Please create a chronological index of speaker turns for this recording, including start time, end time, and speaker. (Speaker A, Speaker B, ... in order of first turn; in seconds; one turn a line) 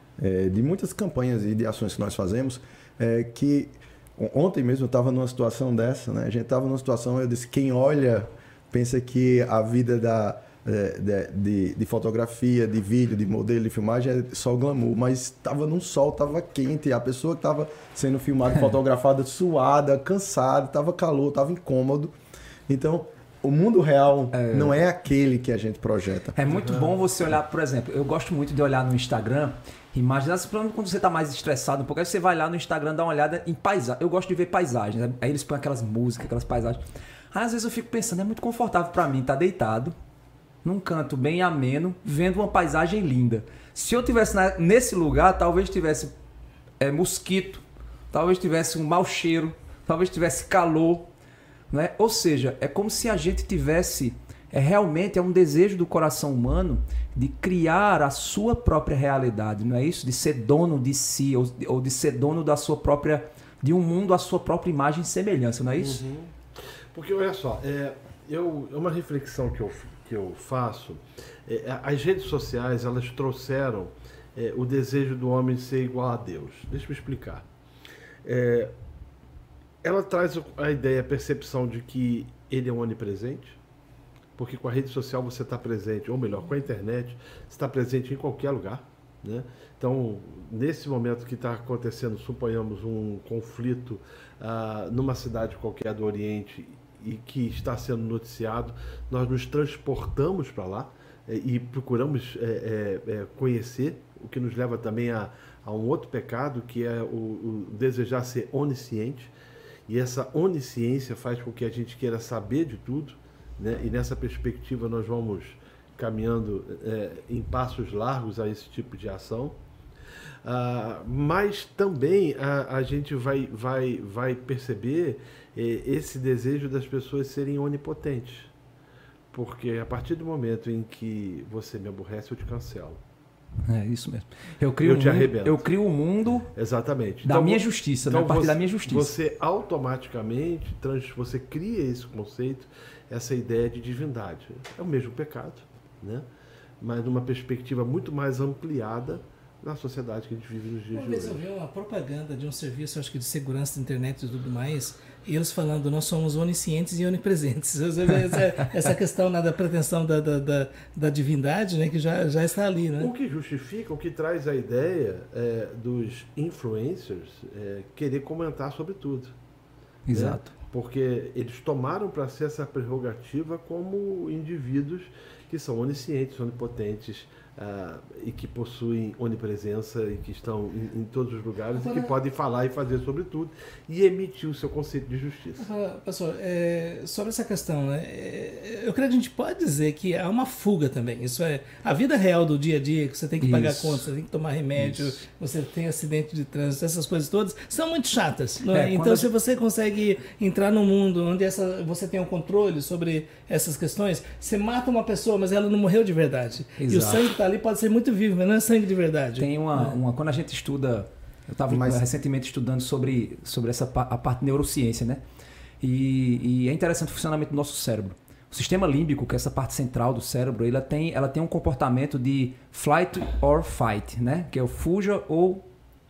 Speaker A: 0.2-22.1
Speaker A: 22.7-26.4
Speaker B: 24.3-24.8
Speaker B: 26.3-36.8
Speaker C: 26.4-26.8
Speaker B: 37.3-39.9
Speaker B: 40.6-46.1
Speaker B: 46.8-51.1
Speaker B: 51.7-66.0
Speaker C: 65.8-66.3
Speaker C: 66.9-77.5
Speaker C: 78.2-78.7
Speaker C: 79.8-83.6
Speaker C: 84.3-109.3
Speaker C: 109.9-119.6
Speaker C: 120.4-128.5
Speaker C: 129.3-133.0
Speaker B: 133.7-136.5
Speaker C: 134.8-135.7
Speaker C: 136.5-146.3
Speaker B: 137.2-139.1
Speaker C: 146.8-151.4
Speaker D: 150.9-163.1
Speaker C: 163.0-169.3
Speaker B: 170.1-170.5
Speaker C: 170.1-185.7
Speaker D: 181.8-182.1
Speaker D: 185.6-209.9
Speaker B: 193.4-194.1
Speaker B: 194.8-195.1
Speaker B: 198.7-199.3
Speaker B: 206.8-207.2
Speaker B: 209.3-215.2
Speaker A: 211.7-212.1
Speaker B: 215.8-225.6